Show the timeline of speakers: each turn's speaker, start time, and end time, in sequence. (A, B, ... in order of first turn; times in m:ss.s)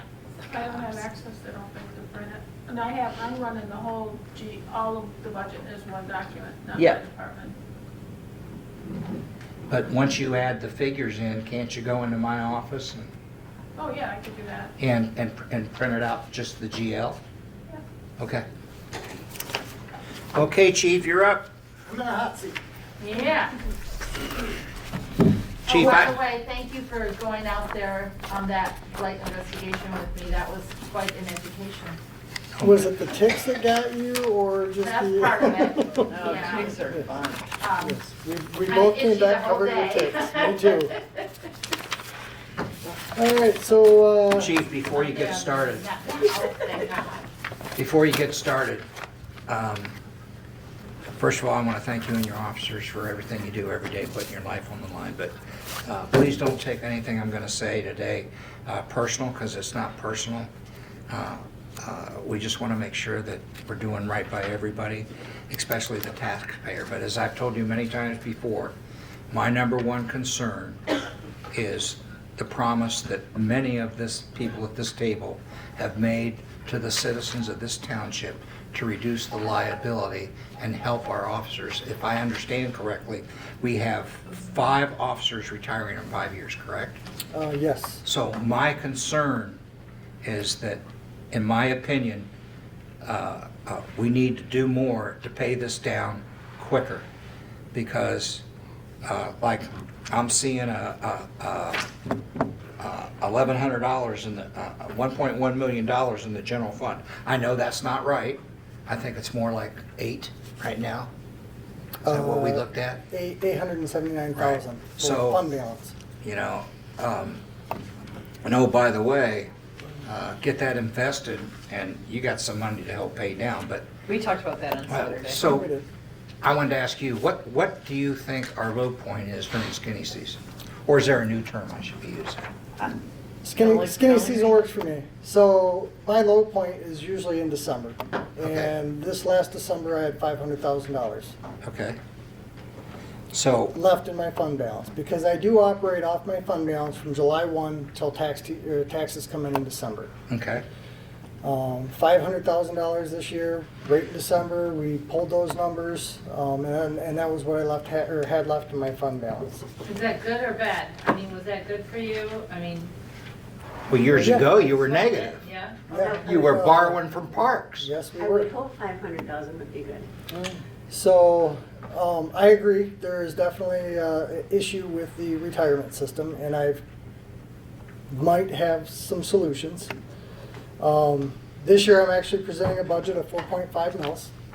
0:00.5-0:07.5 A
0:00.6-0:00.8 B
0:09.7-0:13.1 C
0:13.8-0:14.7 A
0:14.8-0:17.2 C
0:18.2-0:18.4 C
0:20.3-0:21.5 C
0:21.9-0:22.6 D
0:23.0-0:23.6 B
0:25.6-0:26.2 C
0:25.6-0:32.0 B
0:32.6-0:32.8 C
0:32.6-0:36.2 D
0:34.8-0:36.8 B
0:36.0-0:37.5 E
0:37.6-0:38.0 B
0:37.8-0:40.9 D
0:38.6-0:40.8 B
0:43.1-0:44.5 D
0:44.3-0:45.8 C
0:44.9-0:47.3 B
0:47.8-0:48.8 C
0:49.5-0:50.0 C
0:51.2-0:55.3 C
0:55.8-1:00.5 C
1:01.1-1:08.7 C
1:09.3-1:10.8 C
1:11.5-1:27.0 C
1:27.3-1:28.0 D
1:28.0-1:29.6 C
1:30.2-1:32.3 C
1:33.0-1:37.1 C
1:37.7-1:38.4 C
1:39.0-1:41.8 C
1:42.8-1:51.1 C
1:52.0-1:53.0 C
1:52.0-1:55.9 D
1:54.4-1:55.4 C
1:56.2-1:57.4 C
1:58.4-1:59.5 C
2:00.0-2:03.9 C
2:04.1-2:05.4 E
2:04.9-2:05.7 C
2:05.4-2:05.8 D
2:06.4-2:12.4 C
2:13.4-2:21.4 D
2:13.6-2:14.6 E
2:18.4-2:18.7 C
2:21.6-2:22.0 C
2:23.3-2:23.8 C
2:23.7-2:30.1 D
2:30.3-2:30.6 C
2:31.4-2:39.6 D
2:39.8-2:42.9 B
2:43.9-2:45.4 C
2:44.0-2:44.6 D
2:44.6-2:46.0 B
2:45.9-2:47.0 D
2:45.9-2:46.3 F
2:46.2-2:47.9 C
2:47.8-2:48.5 D
2:48.2-2:50.1 F
2:50.3-2:56.8 D
2:58.1-2:59.9 D
3:00.8-3:04.3 D